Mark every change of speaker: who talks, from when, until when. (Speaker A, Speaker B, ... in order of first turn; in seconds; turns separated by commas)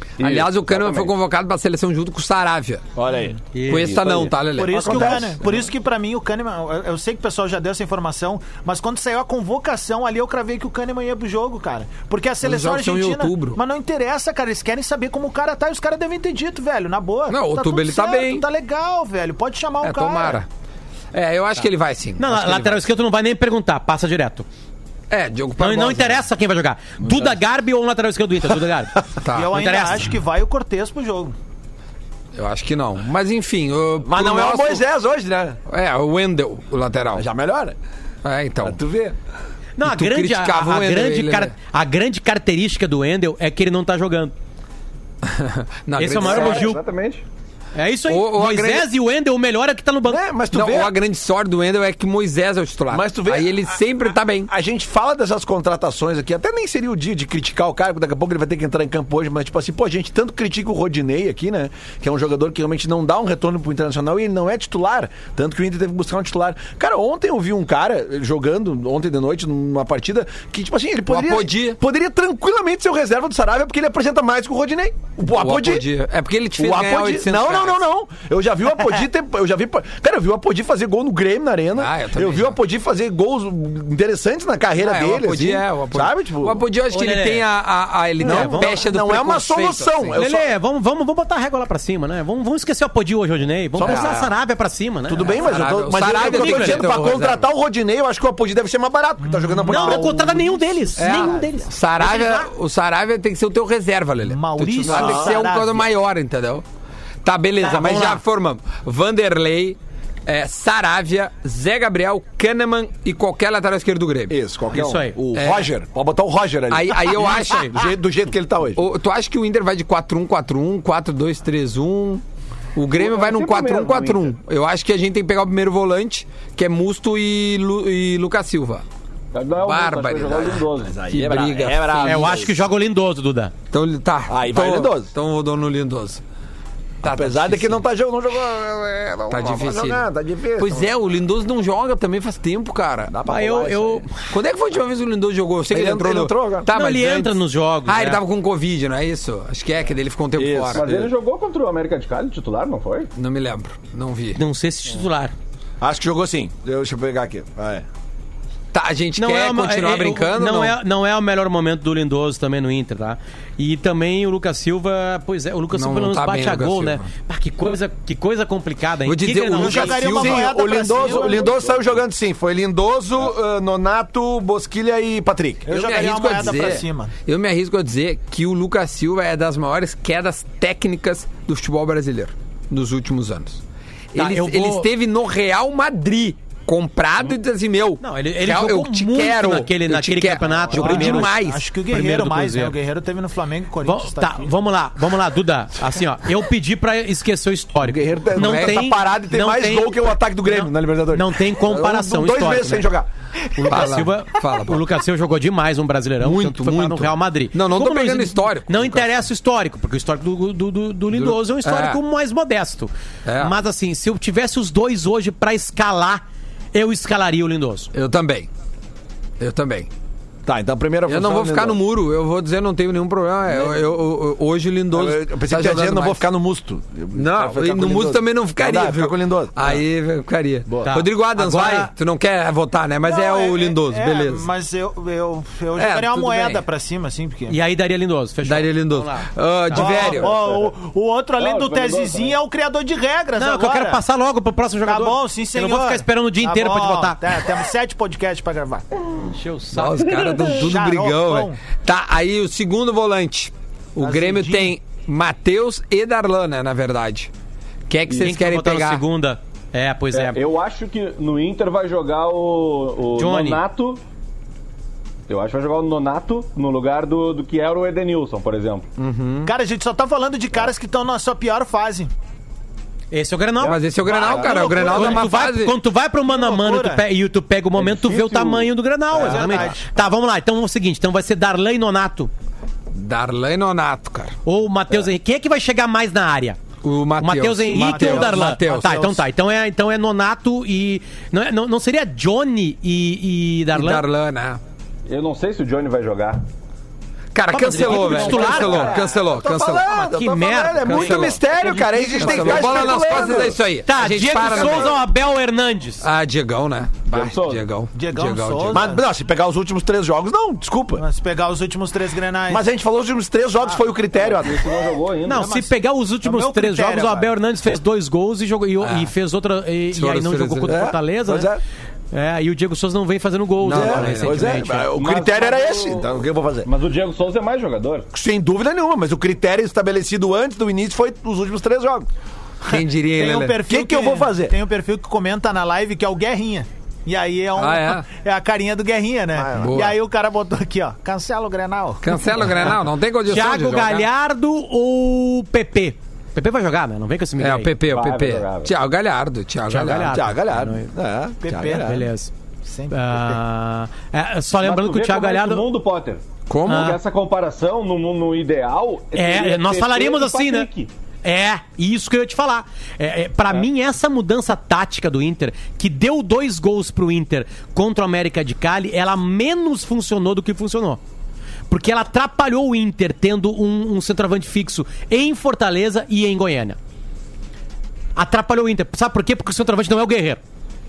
Speaker A: 0.2-1.1, Speaker B: 0.2-2.8, Speaker C: 3.0-3.4, Speaker D: 3.5-4.0, Speaker B: 3.7-5.2, Speaker A: 3.7-4.4, Speaker E: 4.5-20.4, Speaker C: 4.7-5.4, Speaker B: 12.4-13.6, Speaker B: 17.3-18.4, Speaker B: 19.8-20.5, Speaker B: 21.1-22.9, Speaker D: 22.2-24.4, Speaker B: 25.1-26.2, Speaker D: 25.6-30.1, Speaker B: 29.2-29.6, Speaker E: 29.3-31.4, Speaker B: 32.4-34.8, Speaker C: 34.0-35.6, Speaker B: 35.7-37.3, Speaker C: 37.1-37.8, Speaker B: 38.2-38.8, Speaker C: 38.6-39.1, Speaker D: 39.8-44.3, Speaker B: 39.8-41.5, Speaker B: 45.2-46.7, Speaker D: 46.0-46.8, Speaker A: 46.1-47.2, Speaker D: 47.8-50.2, Speaker B: 48.1-48.9, Speaker C: 50.1-50.9, Speaker B: 50.5-54.5, Speaker C: 52.9-75.9, Speaker B: 71.1-71.8, Speaker B: 75.3-77.8, Speaker C: 76.6-86.6, Speaker B: 81.8-82.6, Speaker B: 84.8-90.2, Speaker D: 86.9-87.5, Speaker C: 88.2-90.5, Speaker D: 88.2-88.7, Speaker D: 90.2-95.3, Speaker C: 93.8-94.3, Speaker B: 93.8-94.2, Speaker C: 95.1-100.4, Speaker B: 95.3-97.4, Speaker D: 96.0-96.9, Speaker E: 99.2-100.6, Speaker D: 99.7-102.5, Speaker B: 101.0-106.6, Speaker E: 104.3-105.9, Speaker C: 104.9-105.4, Speaker B: 107.2-114.4, Speaker D: 107.6-108.2, Speaker C: 114.3-118.8, Speaker D: 114.7-115.2, Speaker B: 115.3-115.7, Speaker B: 116.7-117.9, Speaker D: 117.2-117.8, Speaker B: 118.8-122.2, Speaker B: 122.8-128.8, Speaker A: 122.9-124.3, Speaker A: 129.3-130.9, Speaker B: 129.6-132.4, Speaker C: 130.8-132.6, Speaker D: 132.1-133.5, Speaker B: 133.7-136.2, Speaker C: 134.3-135.1, Speaker B: 137.0-137.8, Speaker C: 137.0-140.9, Speaker B: 139.3-140.0, Speaker B: 140.6-143.1, Speaker C: 143.1-144.1, Speaker D: 143.3-144.1, Speaker B: 144.3-151.1, Speaker C: 145.7-146.7, Speaker D: 146.7-148.2, Speaker A: 150.4-153.1, Speaker B: 153.2-154.4, Speaker D: 154.4-155.3, Speaker C: 155.8-157.9, Speaker B: 158.7-160.8, Speaker D: 159.2-170.0, Speaker B: 165.7-167.1, Speaker B: 169.1-170.5, Speaker E: 169.6-171.5, Speaker C: 170.0-175.7, Speaker A: 170.9-171.9, Speaker E: 175.7-177.1, Speaker B: 175.7-183.6, Speaker B: 184.1-191.7, Speaker D: 184.2-184.9, Speaker D: 188.0-191.3, Speaker E: 190.8-194.5, Speaker D: 191.9-192.8, Speaker D: 193.8-202.9, Speaker C: 197.8-203.1, Speaker B: 198.3-198.8, Speaker D: 203.5-216.2, Speaker B: 203.7-204.8, Speaker B: 206.2-209.1, Speaker B: 211.1-212.0, Speaker B: 213.3-213.5, Speaker D: 216.7-217.9, Speaker B: 217.9-218.5, Speaker B: 219.4-219.9, Speaker C: 220.4-221.8, Speaker B: 221.1-226.2, Speaker C: 223.5-223.8, Speaker C: 224.9-229.8, Speaker B: 227.1-234.5, Speaker D: 230.8-231.9, Speaker E: 233.0-237.6, Speaker B: 235.8-236.6, Speaker D: 237.5-239.9, Speaker B: 238.4-240.3, Speaker E: 239.7-244.0, Speaker A: 240.0-240.7, Speaker A: 241.4-242.4, Speaker D: 243.4-247.2, Speaker E: 244.8-248.9, Speaker D: 249.3-250.1, Speaker B: 249.7-257.3, Speaker A: 250.1-250.5, Speaker E: 250.5-251.6, Speaker E: 254.0-254.7, Speaker B: 257.9-259.0, Speaker D: 258.2-260.4, Speaker A: 260.1-264.0, Speaker D: 263.1-263.6, Speaker A: 265.3-268.9, Speaker B: 269.0-269.5, Speaker E: 269.4-272.1, Speaker D: 273.1-273.8, Speaker B: 273.6-275.8, Speaker E: 274.1-275.3, Speaker C: 274.1-274.9, Speaker D: 274.6-282.3, Speaker E: 276.2-277.1, Speaker A: 277.8-278.7, Speaker E: 279.1-279.9, Speaker B: 282.9-284.4, Speaker D: 284.4-286.6, Speaker B: 286.8-289.2, Speaker D: 287.2-294.1, Speaker E: 287.7-289.2, Speaker B: 293.7-294.6, Speaker A: 295.1-296.4, Speaker B: 297.3-299.9, Speaker D: 297.5-299.0, Speaker A: 297.6-298.9, Speaker C: 298.0-303.6, Speaker D: 299.9-302.6, Speaker B: 300.8-301.4, Speaker B: 302.2-305.0, Speaker A: 302.2-303.4, Speaker D: 303.9-306.1, Speaker C: 304.4-304.9, Speaker B: 306.0-308.9, Speaker A: 307.1-307.6, Speaker E: 307.9-309.0, Speaker C: 308.7-311.0, Speaker E: 310.9-312.6, Speaker C: 312.5-314.7, Speaker A: 314.2-315.5, Speaker D: 315.2-321.5, Speaker E: 315.3-317.3, Speaker B: 318.8-319.1, Speaker B: 319.9-320.8, Speaker C: 320.6-321.6, Speaker D: 322.1-324.9, Speaker B: 323.6-324.6, Speaker C: 323.7-326.7, Speaker A: 324.9-326.1, Speaker A: 326.6-328.1, Speaker C: 328.1-332.1, Speaker B: 332.7-333.6, Speaker E: 332.7-342.1, Speaker C: 333.6-334.6, Speaker B: 337.6-338.1, Speaker C: 339.3-339.8, Speaker B: 339.6-339.9, Speaker B: 342.0-344.1, Speaker D: 343.3-347.7, Speaker B: 347.4-350.1, Speaker A: 347.9-348.7, Speaker D: 349.7-350.9, Speaker C: 350.0-352.1, Speaker E: 351.4-352.0, Speaker D: 351.8-352.3, Speaker E: 352.6-353.4, Speaker D: 352.9-355.7, Speaker A: 354.6-360.9, Speaker B: 356.5-356.9, Speaker D: 356.7-357.0, Speaker D: 359.1-360.7, Speaker D: 361.2-371.0, Speaker D: 371.7-376.8, Speaker D: 378.1-380.4